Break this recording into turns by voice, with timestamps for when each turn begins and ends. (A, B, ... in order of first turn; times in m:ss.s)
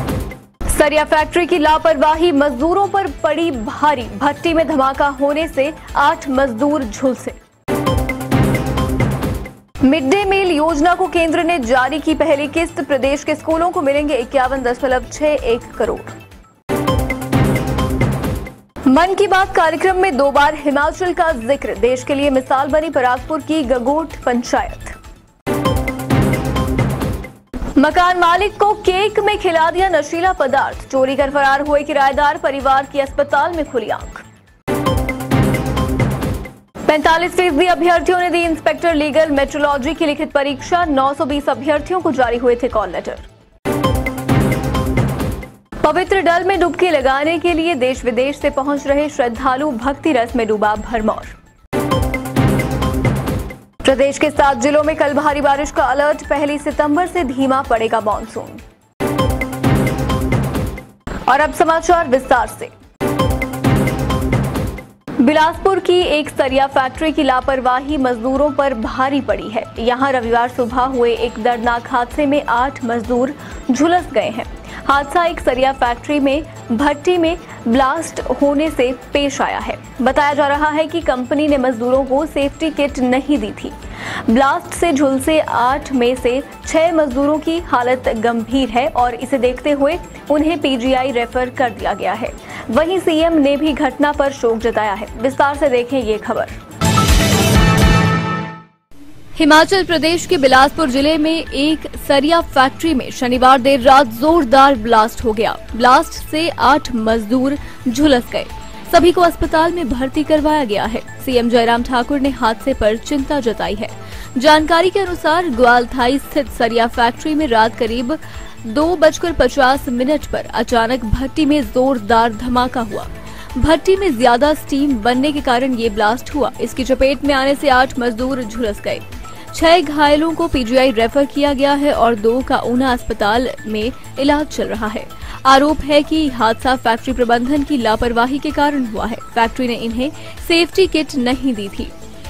0:00.7-0:07.4 A
0:09.8-0:16.2 A
0:18.8-0:25.0 A
0:27.8-0:34.2 A
0:36.9-0:43.2 A
0:45.8-0:51.3 A
0:53.8-0:58.6 A
1:01.3-1:02.7 A
1:05.2-1:23.7 A
1:24.3-1:36.5 A
1:39.4-2:21.9 A